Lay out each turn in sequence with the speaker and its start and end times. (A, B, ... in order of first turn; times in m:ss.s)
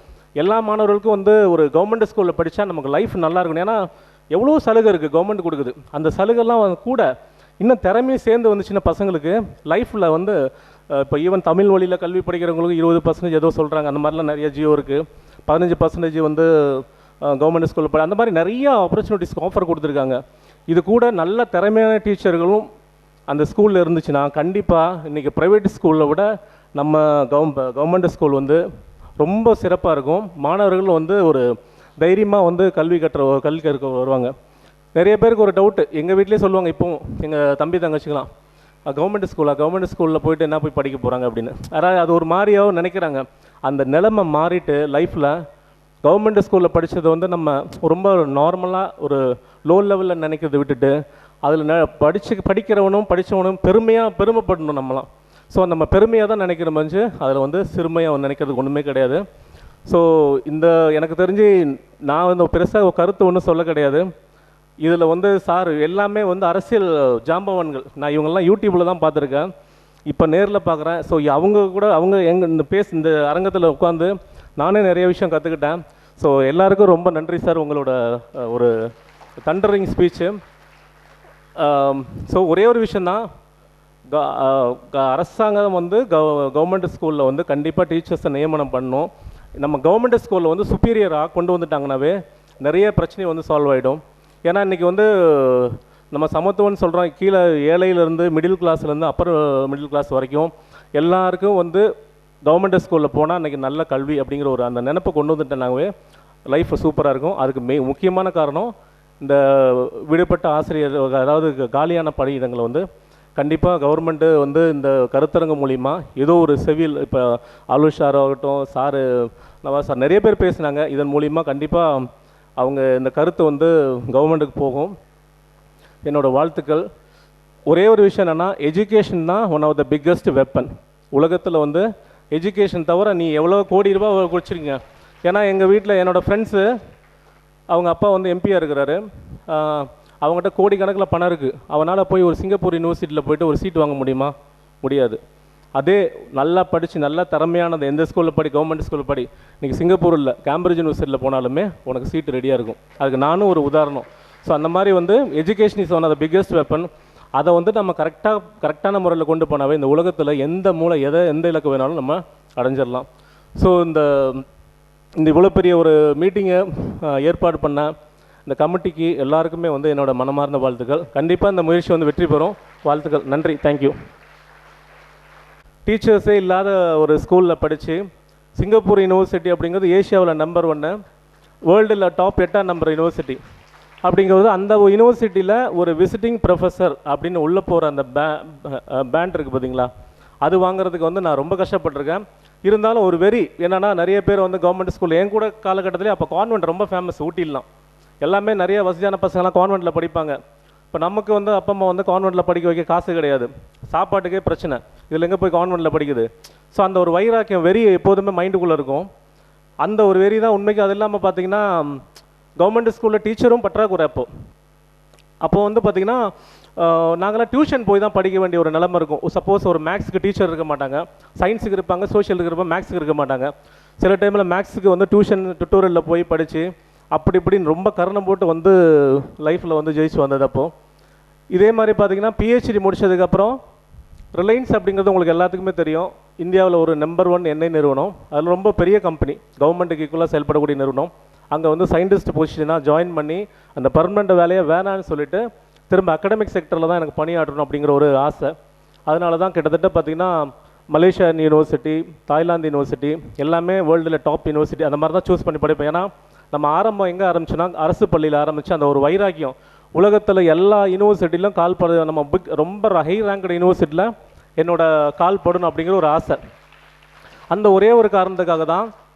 0:00.4-0:07.1 A
0:07.6-0:20.2 A
0:20.7-0:22.6 A
0:23.3-0:28.6 A
0:29.2-0:31.5 A
0:32.0-0:34.3 A
0:34.9-0:38.3 A
0:38.9-0:45.4 A
0:46.0-0:59.2 A
0:59.8-1:04.0 A
1:04.8-1:09.5 A
1:10.1-1:18.8 A
1:19.4-1:20.4 A
1:21.6-1:23.2 A
1:24.1-1:41.8 A
1:42.4-1:45.9 A
1:46.5-1:52.8 A
1:53.4-2:02.1 A
2:02.6-2:04.9 A
2:06.0-2:06.8 A
2:07.7-2:16.8 A
2:17.7-2:25.2 A
2:25.8-2:43.0 A
2:43.6-2:44.4 A
2:45.2-2:47.9 A
2:48.4-2:53.9 A
2:55.8-2:58.0 A
2:58.6-3:01.0 A
3:01.7-3:03.4 A
3:04.0-3:09.9 A
3:10.4-3:17.6 A
3:18.2-3:20.4 A
3:20.9-3:29.1 A
3:29.8-3:32.0 A
3:32.6-3:34.3 A
3:35.4-3:50.7 A
3:51.5-3:53.6 A
3:54.3-4:08.5 A
4:09.1-4:26.4 A
4:27.5-4:28.9 A